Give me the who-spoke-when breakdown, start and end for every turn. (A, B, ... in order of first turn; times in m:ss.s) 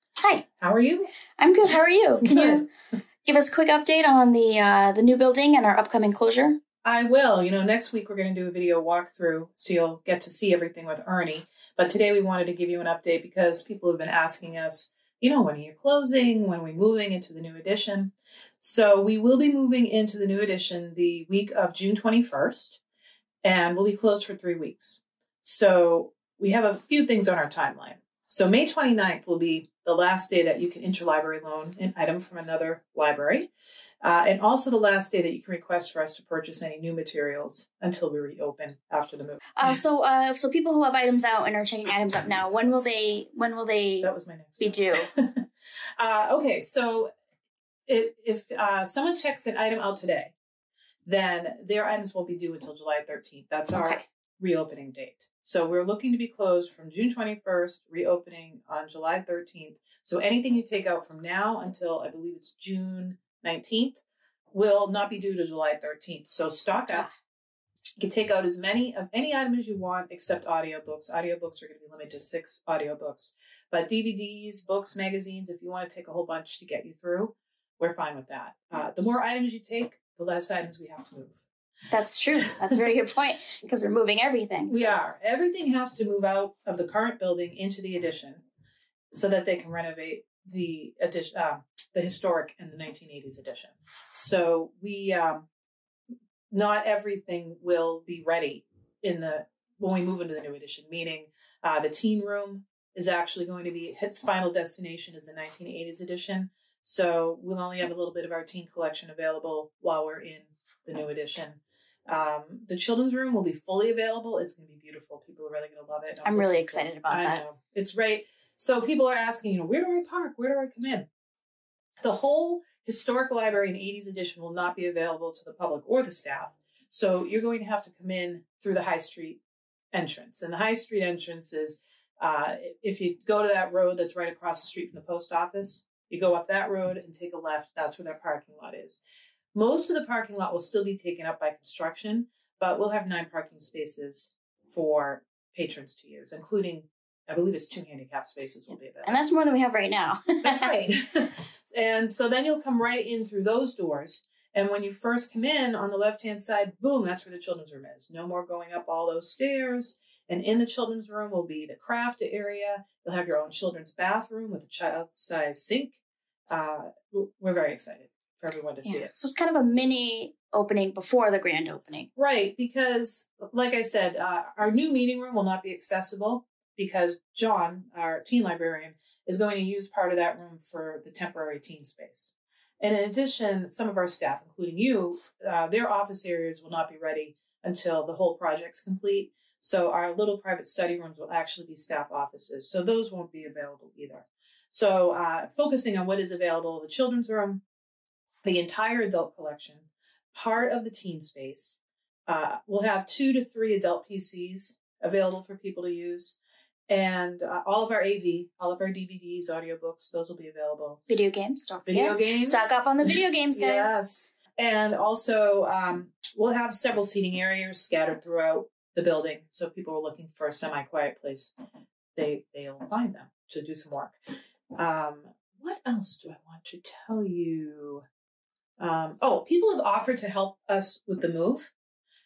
0:00.2-0:00.4 A
0:00.6-0:01.1 B
0:01.4-0:02.7 A
0:02.2-0:02.6 B
0:03.2-0:06.6 A
0:06.8-0:22.8 B
0:23.4-0:33.5 B
0:34.0-0:39.8 B
0:39.6-0:45.1 A
0:42.5-0:42.8 B
0:44.0-0:45.4 B
0:46.0-0:47.1 B
0:47.9-0:50.3 B
0:51.0-1:04.0 B
0:53.7-0:54.0 A
1:04.5-1:07.1 B
1:08.0-1:21.4 B
1:21.9-1:25.0 A
1:24.7-1:28.4 B
1:29.1-1:35.4 B
1:36.5-2:01.1 B
1:56.2-1:57.4 A
2:02.0-2:09.4 B
2:09.9-2:19.0 B
2:19.5-2:29.2 B
2:29.0-2:30.7 A
2:30.4-2:46.0 B
2:46.5-2:49.1 B
2:48.8-2:52.1 A
2:52.2-3:17.6 B
3:18.4-3:26.4 B
3:26.9-3:31.0 B
3:31.1-3:34.0 A
3:31.8-3:41.5 B
3:42.2-3:44.2 B
3:44.7-3:48.0 B
3:48.8-3:51.7 B